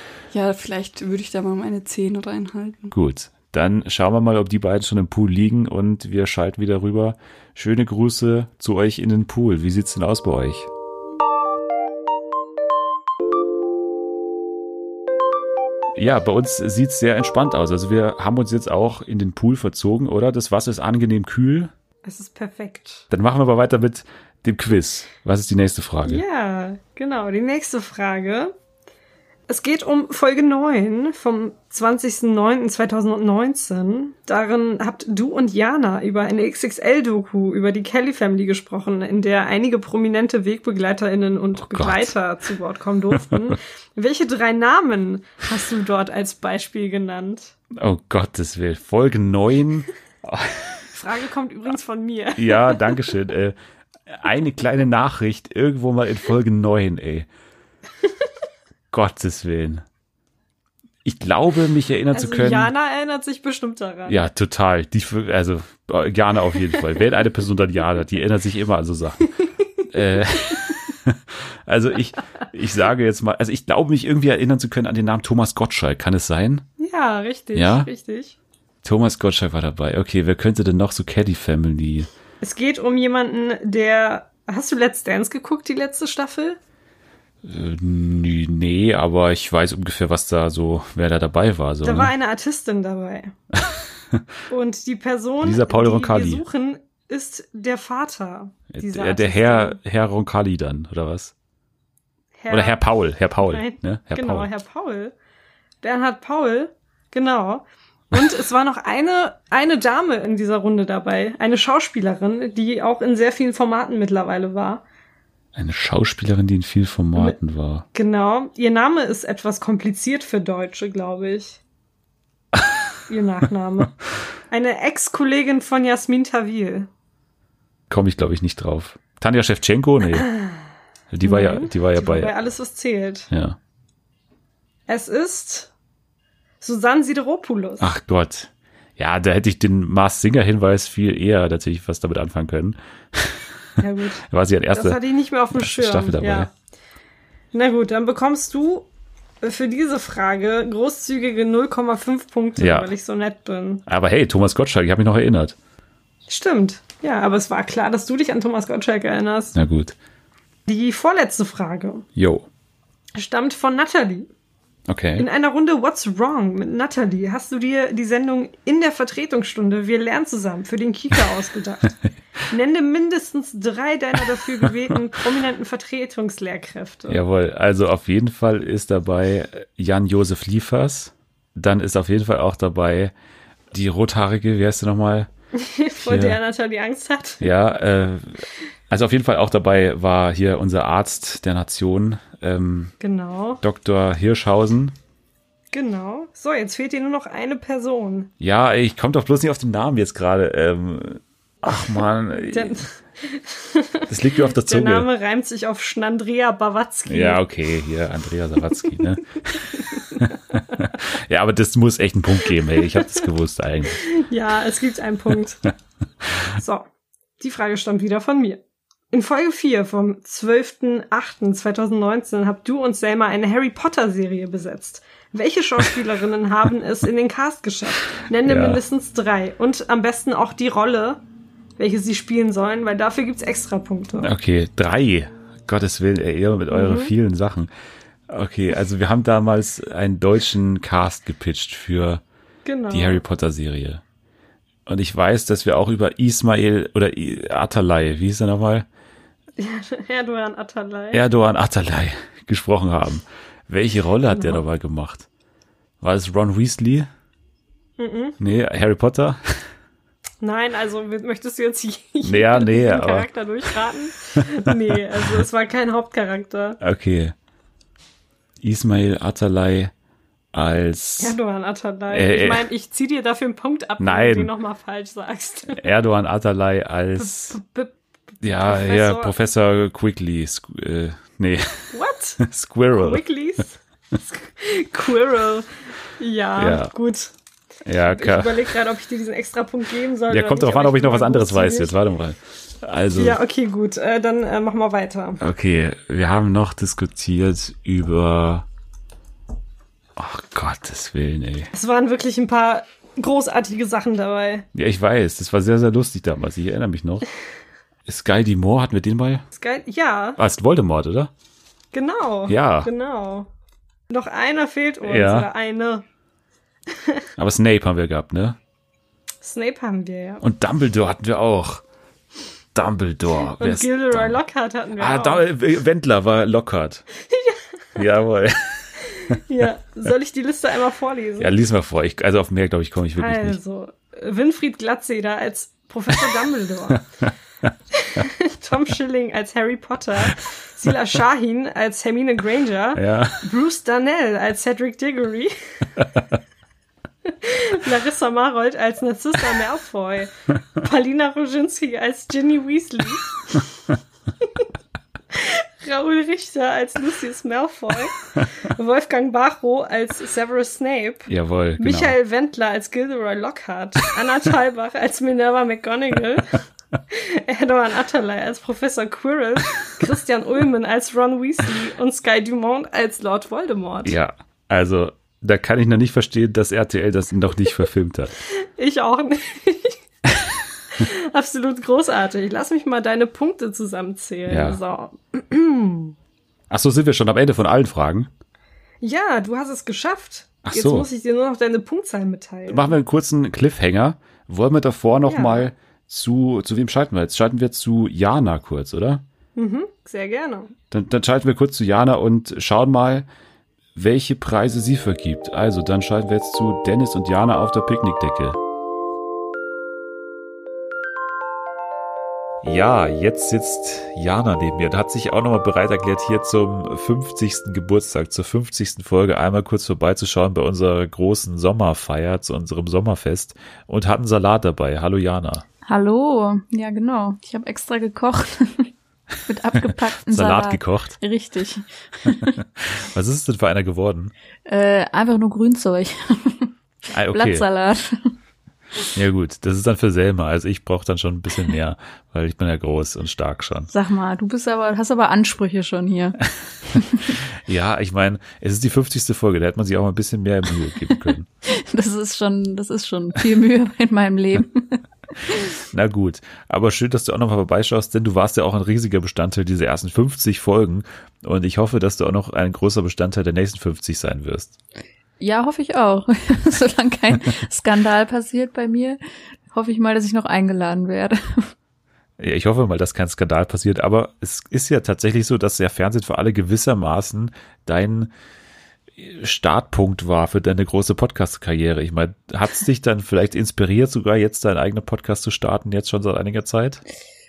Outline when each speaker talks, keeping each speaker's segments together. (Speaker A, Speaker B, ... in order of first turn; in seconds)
Speaker A: 0.3-2.9
Speaker B: 2.9-10.7, 16.0-21.7, 23.1-26.2, 41.6-42.1, 43.1-43.5, 47.8-50.9, 52.4-53.6, 54.1-57.3, 58.9-59.8, 61.0-62.7, 64.1-69.3, 69.9-76.6, 77.5-77.9, 78.8-82.1, 87.4-92.1, 93.5-94.3, 95.4-96.4, 98.7-101.3, 102.5-104.5, 115.6-117.8, 127.9-130.3, 131.1-132.3, 133.3-133.6, 137.8-143.5, 144.3-145.0, 145.6-146.5, 152.6-152.9, 153.9-155.6, 159.6-159.9, 162.2-162.5, 164.9-165.3, 177.1-183.1, 183.7-185.3, 186.0-186.4, 187.4-192.9, 193.6-194.9, 198.4-202.8, 204.1-205.1, 207.1-214.0, 228.4-228.8, 234.2-237.7, 238.3-242.2, 242.9-244.0, 244.9-248.9, 251.1-255.3, 256.0-257.1, 258.4-259.5, 262.2-263.3, 266.8-267.3, 268.6-269.9, 270.5-271.4, 272.1-272.7, 274.0-274.5, 275.7-277.6, 278.4-283.2, 286.6-286.9, 287.9-288.7, 290.3-293.4, 295.4-298.7, 300.2-301.7, 304.8-307.3, 308.1-309.4, 310.4-311.3, 312.5-312.9, 315.0-315.5, 317.4-318.6, 320.4-321.8, 322.8-324.4, 325.0-327.1, 328.0-329.4, 331.4-333.6, 337.0-337.7, 343.0-343.4, 361.3-362.2, 374.0-378.3, 384.5-384.8, 386.7-388.3, 390.6-391.1, 392.7-399.2, 400.9-403.3, 404.0-408.6, 412.6-425.6, 429.9-431.2, 432.3-434.3, 437.1-437.7, 439.1-443.9, 447.4-451.5, 455.9-464.8, 472.4-478.3, 479.2-487.0
Speaker C: 22.0-23.1, 26.0-28.5, 29.5-47.5, 50.9-52.9, 62.1-64.3, 76.8-78.4, 82.4-86.6, 91.8-93.3, 94.5-99.8, 102.4-102.8, 103.4-105.1, 105.8-114.8, 117.9-121.6, 123.1-123.9, 124.5-126.9, 130.1-130.6, 131.2-133.3, 134.9-135.7, 136.6-137.9, 143.8-146.5, 147.5-148.9, 149.4-153.8, 156.3-159.6, 160.7-162.1, 163.2-164.3, 165.2-171.9, 172.5-177.2, 185.6-187.5, 193.0-193.6, 195.7-198.3, 202.4-207.4, 209.9-210.2, 212.6-213.2, 214.0-215.6, 216.6-216.9, 217.4-218.6, 219.1-231.2, 231.8-234.3, 236.7-237.1, 242.7-243.2, 249.6-251.2, 254.3-254.6, 258.0-258.4, 260.4-266.8, 271.2-275.9, 277.2-279.4, 281.9-287.3, 288.1-291.9, 293.1-295.4, 301.7-304.7, 309.5-310.4, 311.9-313.5, 314.1-316.1, 316.9-317.3, 319.4-320.4, 323.6-325.4, 327.2-328.0, 329.3-331.5, 333.2-337.0, 338.0-345.9, 347.3-353.6, 355.3-374.2, 378.6-380.0, 381.0-386.1, 389.0-393.0, 395.3-395.7, 399.6-400.7
Speaker D: 425.9-428.9, 429.5-432.6, 434.7-436.7, 437.3-438.2, 443.9-446.4, 446.9-447.2, 451.7-455.6, 465.4-471.7